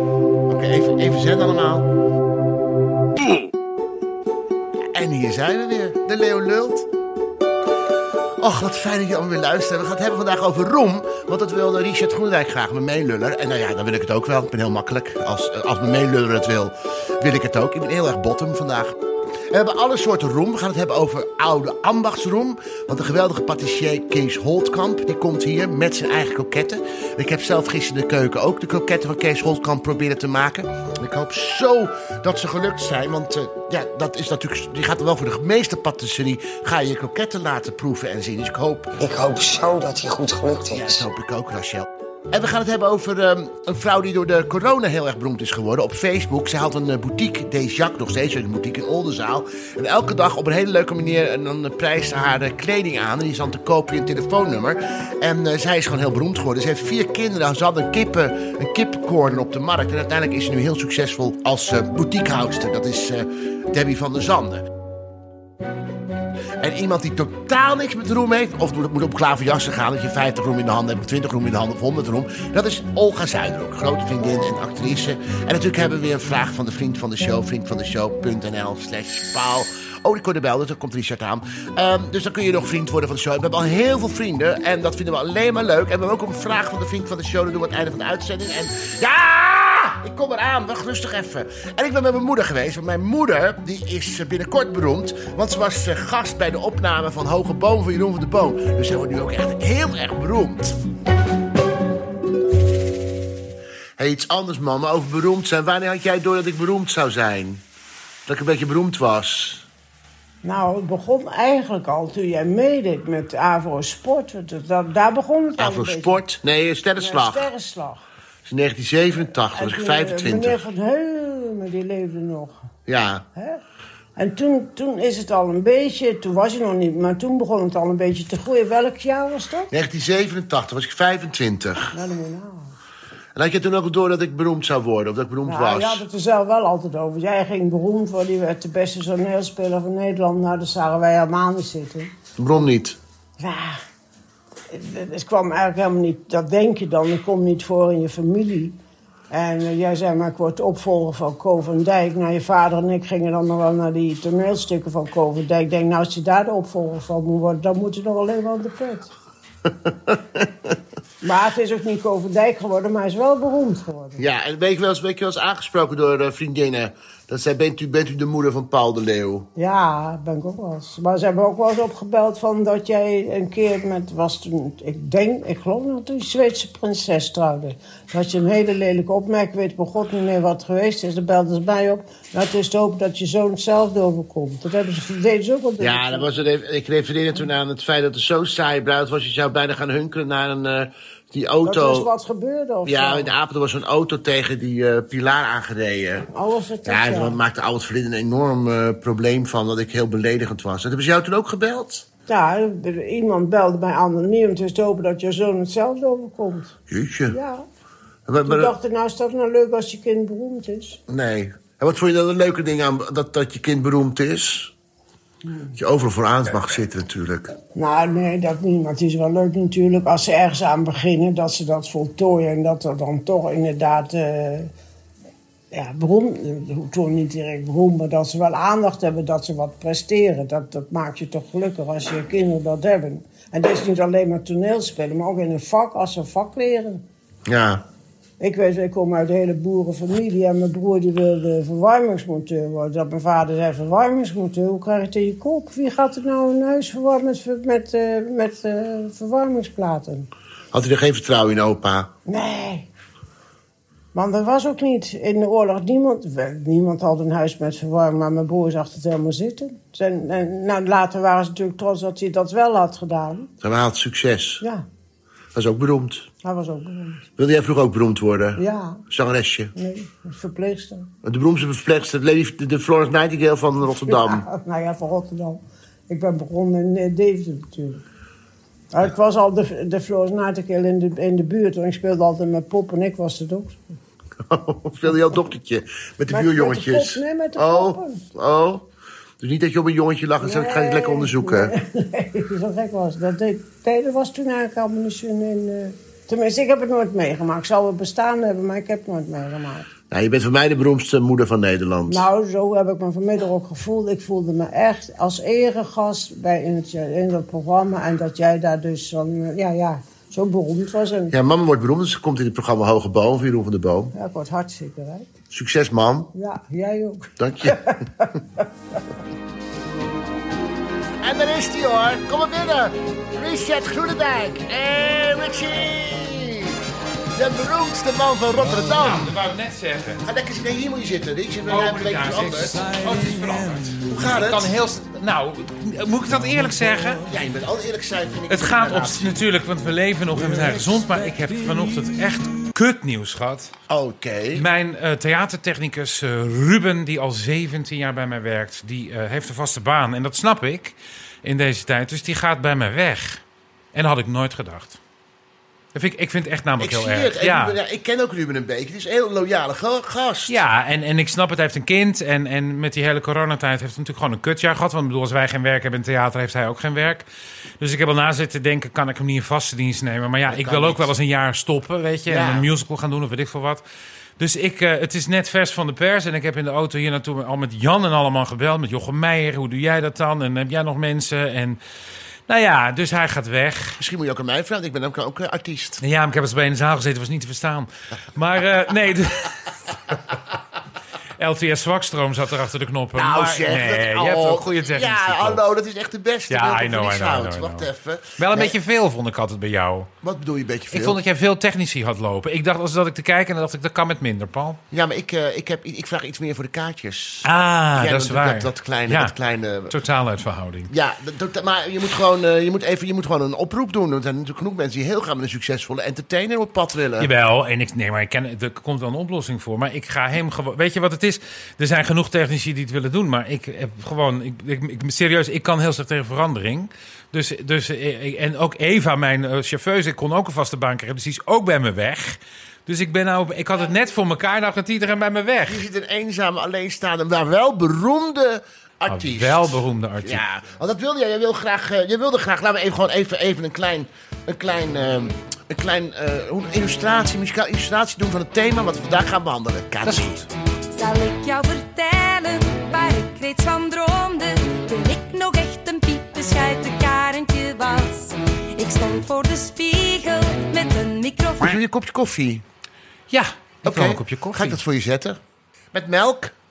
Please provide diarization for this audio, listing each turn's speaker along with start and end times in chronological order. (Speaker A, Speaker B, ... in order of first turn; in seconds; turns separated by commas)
Speaker A: 0.5-1.9, Speaker A: 4.9-6.9, Speaker A: 8.4-18.9, Speaker A: 19.5-38.9, Speaker B: 39.0-41.0, Speaker A: 40.7-64.7, Speaker A: 66.6-100.8, Speaker A: 104.0-107.6, Speaker A: 108.3-109.6, Speaker C: 110.4-116.2, Speaker A: 115.6-117.5, Speaker C: 117.0-118.0, Speaker A: 118.5-120.6, Speaker C: 119.2-122.6, Speaker A: 122.9-123.2, Speaker C: 123.3-123.6, Speaker C: 124.2-129.7, Speaker A: 129.7-131.9, Speaker C: 131.9-132.7, Speaker A: 133.3-136.0, Speaker C: 135.4-142.2, Speaker A: 142.4-143.0, Speaker C: 143.4-143.8, Speaker C: 144.7-148.8, Speaker C: 149.3-159.1, Speaker A: 159.8-160.7, Speaker C: 161.2-164.2, Speaker A: 164.2-169.5, Speaker C: 169.6-186.3, Speaker A: 185.8-192.1, Speaker C: 191.6-193.3, Speaker A: 192.8-196.3, Speaker C: 196.3-197.4, Speaker A: 196.8-202.1, Speaker C: 202.3-206.7, Speaker A: 206.9-207.3, Speaker C: 207.3-207.6, Speaker A: 208.3-208.7, Speaker C: 208.4-211.0, Speaker A: 211.1-214.7, Speaker C: 215.5-215.7, Speaker A: 215.8-217.5, Speaker C: 217.7-224.7, Speaker C: 225.7-237.0, Speaker A: 237.5-237.8, Speaker C: 238.4-250.3, Speaker A: 250.7-252.1, Speaker C: 252.3-252.9, Speaker C: 254.1-263.5, Speaker A: 263.6-264.6, Speaker C: 264.6-264.9, Speaker A: 265.5-266.2, Speaker C: 266.4-267.2, Speaker A: 267.4-269.7, Speaker C: 268.6-269.0, Speaker C: 269.7-271.1, Speaker A: 271.2-274.4, Speaker C: 274.1-278.0, Speaker C: 278.9-283.8, Speaker A: 284.5-288.8, Speaker C: 286.3-288.2, Speaker A: 289.4-291.7, Speaker C: 290.4-299.9, Speaker A: 300.1-302.2, Speaker C: 302.1-311.3, Speaker A: 311.3-314.1, Speaker C: 314.1-315.3, Speaker A: 315.5-316.3, Speaker C: 316.3-318.6, Speaker A: 317.4-317.8, Speaker A: 321.2-326.8, Speaker A: 327.4-329.3, Speaker D: 328.9-330.2, Speaker A: 330.2-332.8, Speaker D: 331.7-337.2, Speaker A: 334.0-334.7, Speaker A: 337.3-339.4, Speaker D: 338.5-343.7, Speaker A: 340.3-341.2, Speaker A: 343.9-344.6, Speaker D: 344.5-353.4, Speaker D: 353.9-355.0, Speaker D: 355.9-357.8, Speaker A: 356.8-360.6, Speaker D: 360.5-367.2, Speaker D: 367.8-373.8, Speaker A: 370.5-371.1, Speaker A: 372.3-372.6, Speaker D: 374.4-381.8, Speaker D: 382.5-384.0, Speaker A: 384.0-386.0, Speaker D: 386.0-390.1, Speaker D: 391.4-395.6, Speaker A: 393.1-398.7, Speaker D: 396.5-400.1, Speaker A: 400.2-401.2, Speaker D: 400.9-404.8, Speaker A: 404.9-409.9, Speaker D: 407.4-409.3, Speaker D: 409.9-410.9, Speaker A: 410.9-417.3, Speaker D: 417.2-435.8, Speaker A: 435.7-450.4, Speaker D: 439.1-440.4, Speaker D: 450.0-450.5, Speaker E: 450.9-461.8, Speaker A: 461.6-462.6, Speaker D: 463.3-464.8, Speaker A: 463.8-465.4, Speaker A: 465.9-466.5